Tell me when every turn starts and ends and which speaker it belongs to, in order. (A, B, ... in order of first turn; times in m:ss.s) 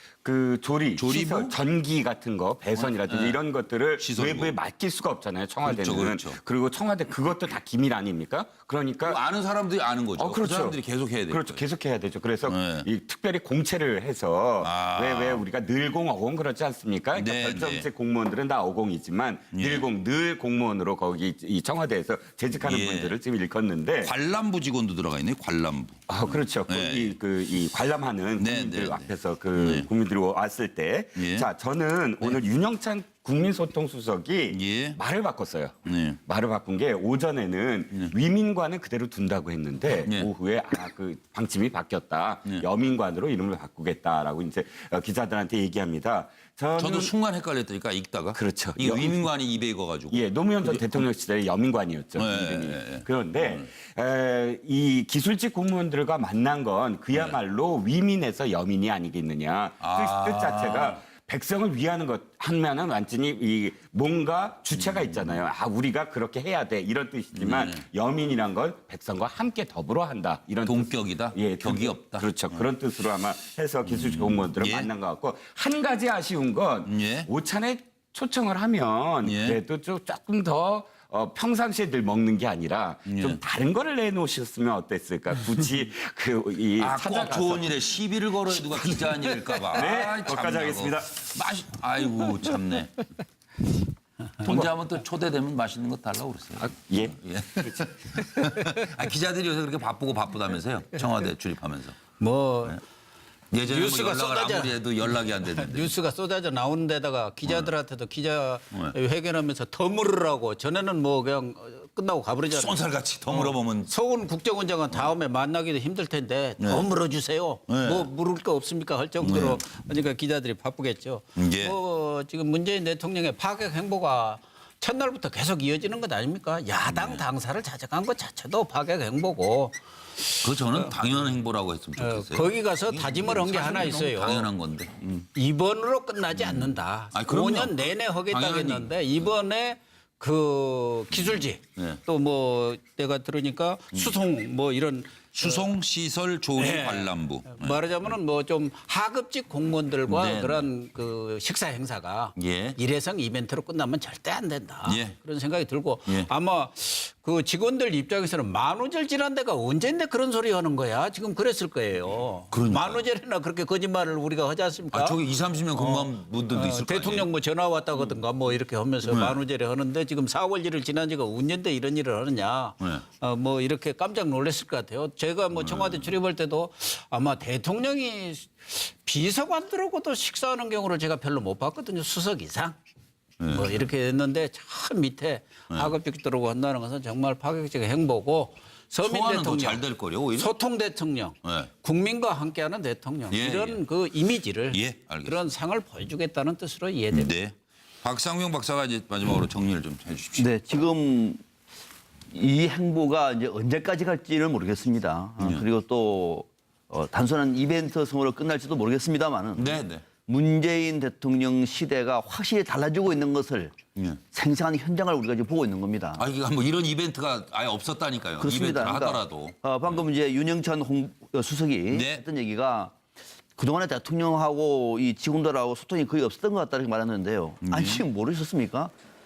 0:00.2-0:09.2 A
0:01.0-0:01.6 B
0:02.8-0:03.4 B
0:04.0-0:04.6 B
0:05.6-0:06.4 B
0:09.1-0:11.6 B
0:10.2-0:10.8 A
0:11.3-0:24.1 A
0:12.5-0:12.9 B
0:14.6-0:15.4 B
0:17.2-0:17.9 B
0:19.5-0:19.8 B
0:22.6-0:23.1 B
0:24.0-0:27.2 B
0:26.1-0:47.1 A
0:28.4-0:29.9 B
0:31.2-0:31.5 B
0:34.5-0:35.0 B
0:35.9-0:36.2 B
0:40.0-0:40.3 B
0:46.8-0:51.0 B
0:48.4-0:49.2 A
0:50.1-1:27.7 A
0:52.2-0:53.7 B
0:59.8-1:01.0 B
1:04.8-1:05.3 B
1:07.4-1:07.8 B
1:10.7-1:12.6 B
1:13.9-1:14.9 B
1:16.9-1:17.3 B
1:19.2-1:19.6 B
1:23.1-1:23.4 B
1:26.8-1:32.9 B
1:28.7-1:31.3 A
1:34.4-1:42.0 B
1:34.4-1:34.7 A
1:36.6-1:37.9 A
1:42.2-1:42.8 C
1:43.5-1:45.9 B
1:43.7-2:11.0 C
1:52.5-1:53.9 B
1:57.7-1:58.1 B
1:59.2-1:59.6 B
2:01.4-2:01.8 B
2:06.9-2:07.2 B
2:10.4-2:15.1 B
2:12.0-2:14.5 C
2:15.1-2:25.7 C
2:16.4-2:18.9 B
2:21.1-2:22.0 B
2:25.4-2:28.2 B
2:26.6-2:45.2 C
2:30.1-2:30.7 B
2:32.4-2:32.8 B
2:34.9-2:35.2 B
2:42.5-2:43.0 B
2:44.9-2:47.3 B
2:45.8-3:02.8 C
2:49.1-2:49.4 B
2:55.5-2:56.1 B
3:03.4-3:03.9 B
3:03.5-3:09.8 C
3:09.0-3:10.5 B
3:10.4-3:17.3 C
3:11.4-3:11.7 B
3:13.3-3:13.8 B
3:14.7-3:15.4 B
3:17.1-3:20.5 B
3:20.4-3:21.4 D
3:22.3-3:33.8 D
3:29.6-3:30.0 B
3:34.3-3:36.2 D
3:36.2-3:40.0 B
3:38.4-3:42.9 D
3:41.9-3:42.2 B
3:43.6-3:48.9 D
3:47.6-3:48.0 B